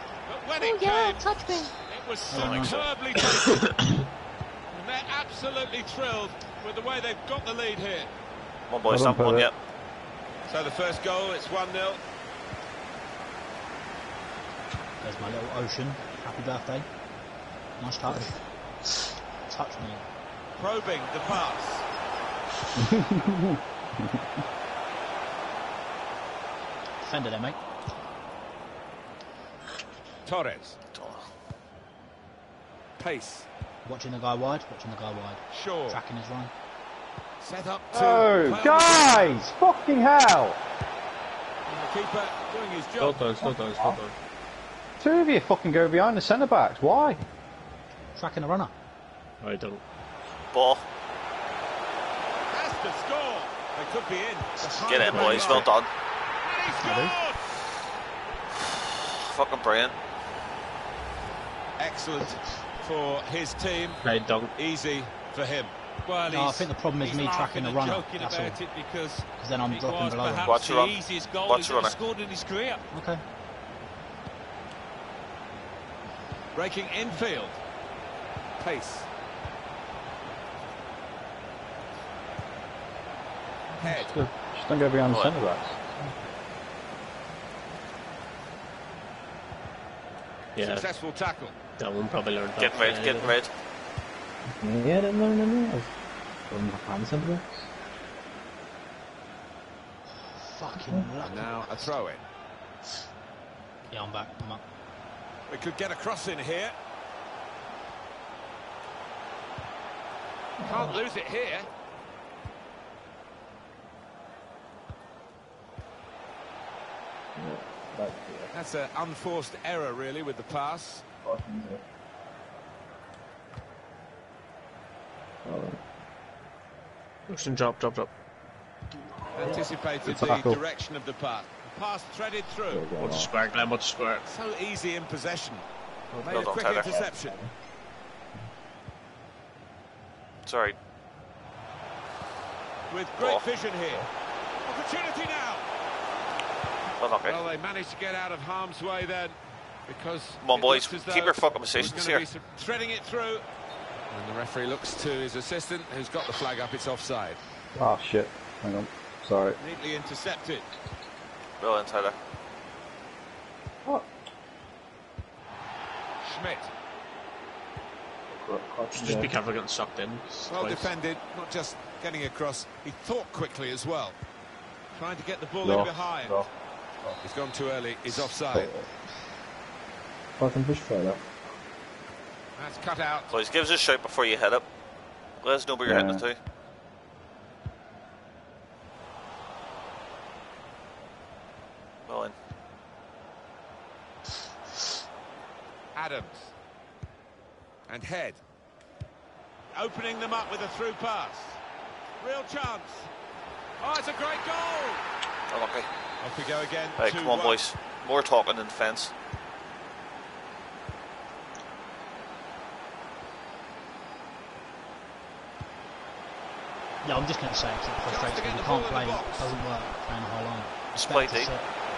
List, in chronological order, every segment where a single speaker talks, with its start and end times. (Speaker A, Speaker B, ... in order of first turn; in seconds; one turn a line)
Speaker A: 0.2-3.7
Speaker B: 2.3-2.7
Speaker C: 2.3-2.9
Speaker A: 4.7-8.1
Speaker C: 8.7-9.5
Speaker D: 8.9-9.5
Speaker A: 10.5-12.0
Speaker B: 15.0-16.9
Speaker B: 17.8-18.4
Speaker B: 19.4-20.1
Speaker A: 20.6-21.9
Speaker D: 22.8-23.3
Speaker B: 27.0-27.6
Speaker A: 30.2-30.8
Speaker C: 30.9-31.3
Speaker A: 33.0-33.5
Speaker B: 33.8-36.5
Speaker A: 35.5-36.0
Speaker A: 37.4-39.4
Speaker D: 37.9-40.6
Speaker A: 41.7-43.2
Speaker E: 43.0-44.1
Speaker D: 43.4-44.0
Speaker D: 45.0-47.2
Speaker B: 48.1-48.7
Speaker E: 49.4-49.8
Speaker C: 50.5-50.8
Speaker A: 52.5-55.7
Speaker C: 54.8-55.9
Speaker E: 55.1-55.7
Speaker A: 56.4-57.4
Speaker B: 56.8-57.1
Speaker C: 59.2-60.0
Speaker A: 61.8-64.0
Speaker E: 64.0-64.5
Speaker A: 64.5-65.7
Speaker F: 66.0-72.8
Speaker B: 66.3-68.6
Speaker B: 69.4-70.5
Speaker C: 70.4-72.0
Speaker B: 72.9-73.2
Speaker A: 76.5-77.6
Speaker A: 78.6-79.1
Speaker A: 83.8-84.3
Speaker D: 83.8-85.8
Speaker C: 85.1-85.3
Speaker E: 90.5-90.9
Speaker A: 90.6-91.5
Speaker E: 91.8-93.4
Speaker C: 92.6-93.5
Speaker G: 94.4-95.9
Speaker G: 96.5-97.7
Speaker B: 100.5-101.9
Speaker A: 101.2-102.2
Speaker B: 103.9-104.6
Speaker A: 105.5-106.7
Speaker G: 110.6-111.0
Speaker A: 110.6-111.7
Speaker G: 117.4-118.5
Speaker A: 118.5-121.0
Speaker G: 121.2-121.8
Speaker G: 125.5-125.8
Speaker E: 127.3-128.1
Speaker A: 129.3-132.8
Speaker D: 130.0-130.6
Speaker D: 132.8-133.2
Speaker E: 132.9-134.2
Speaker G: 133.0-133.2
Speaker A: 134.2-135.6
Speaker G: 136.1-137.5
Speaker A: 136.3-137.4
Speaker C: 136.3-137.0
Speaker C: 140.4-140.8
Speaker A: 142.9-144.1
Speaker C: 143.2-143.4
Speaker A: 144.6-145.7
Speaker C: 147.0-147.4
Speaker A: 147.2-153.4
Speaker C: 150.4-152.3
Speaker A: 154.1-157.4
Speaker D: 157.7-159.6
Speaker A: 159.6-160.7
Speaker C: 161.6-162.2
Speaker A: 166.2-166.7
Speaker D: 168.5-169.3
Speaker E: 168.9-170.9
Speaker G: 168.9-169.3
Speaker A: 170.5-174.2
Speaker A: 174.9-176.4
Speaker D: 175.6-176.5
Speaker A: 177.2-178.7
Speaker D: 178.5-178.9
Speaker G: 180.4-181.3
Speaker A: 182.6-183.3
Speaker C: 183.3-184.7
Speaker C: 185.4-186.4
Speaker D: 185.8-186.2
Speaker C: 192.1-192.3
Speaker A: 195.9-196.5
Speaker A: 197.9-198.4
Speaker A: 199.7-201.6
Speaker A: 202.2-203.1
Speaker A: 203.8-205.1
Speaker C: 205.5-205.9
Speaker A: 206.2-207.6
Speaker C: 207.0-209.1
Speaker B: 217.0-221.7
Speaker A: 218.0-219.6
Speaker C: 220.9-221.5